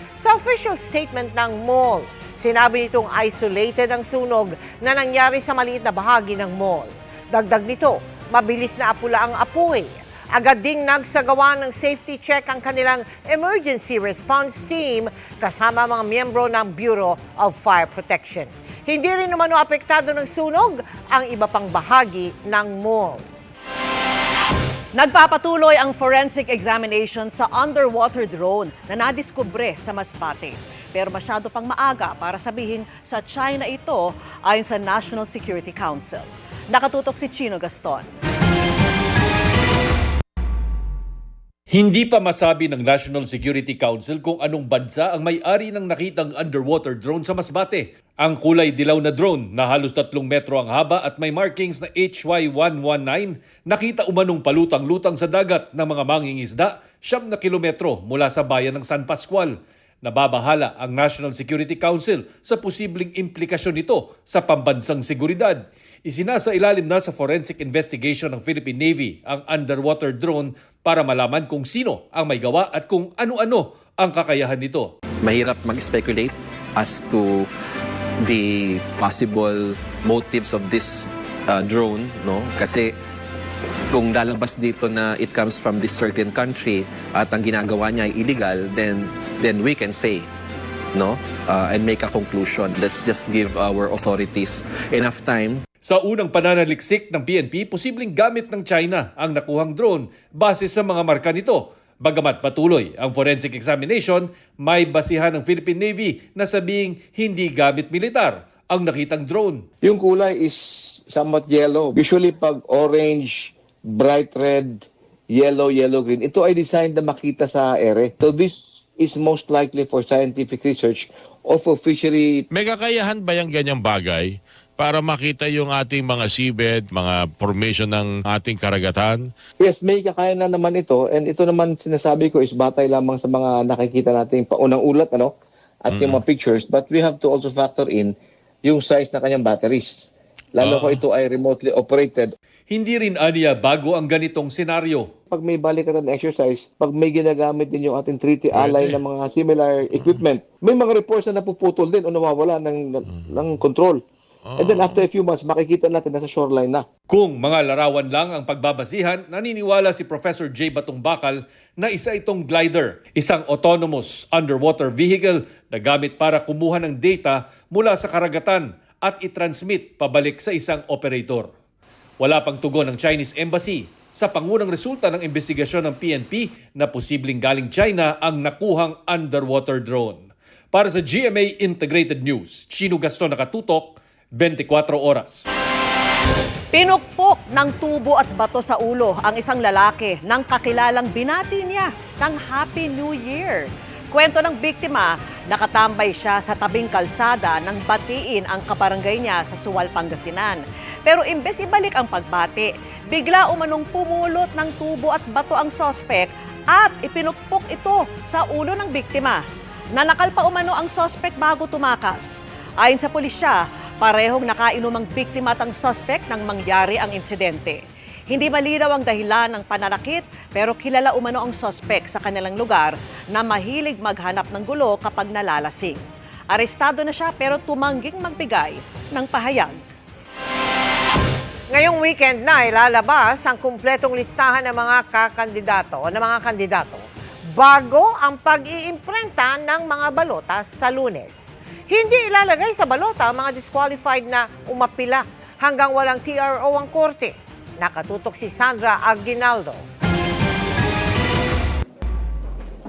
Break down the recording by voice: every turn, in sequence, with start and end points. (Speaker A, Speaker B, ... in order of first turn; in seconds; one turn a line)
Speaker A: 0.2-23.2
Speaker B: 24.9-38.1
Speaker C: 41.7-74.9
Speaker D: 75.2-77.5
Speaker D: 78.2-82.9
Speaker D: 83.9-90.3
Speaker D: 90.9-95.6
Speaker C: 95.8-109.6
Speaker E: 109.8-122.4
Speaker F: 122.5-129.2
Speaker E: 129.6-135.3
Speaker E: 135.9-138.1
Speaker F: 135.9-136.2
Speaker E: 138.6-140.1
Speaker E: 140.6-142.3
Speaker F: 140.6-141.0
Speaker C: 142.7-145.1
Speaker E: 145.3-154.0
Speaker F: 148.5-148.9
Speaker F: 154.6-155.0
Speaker E: 154.6-156.8
Speaker C: 157.1-171.5
Speaker C: 172.2-185.4
Speaker B: 186.7-209.4
Speaker B: 209.9-212.3
Speaker B: 212.8-217.8
Speaker B: 218.3-229.8
Speaker A: 231.7-249.8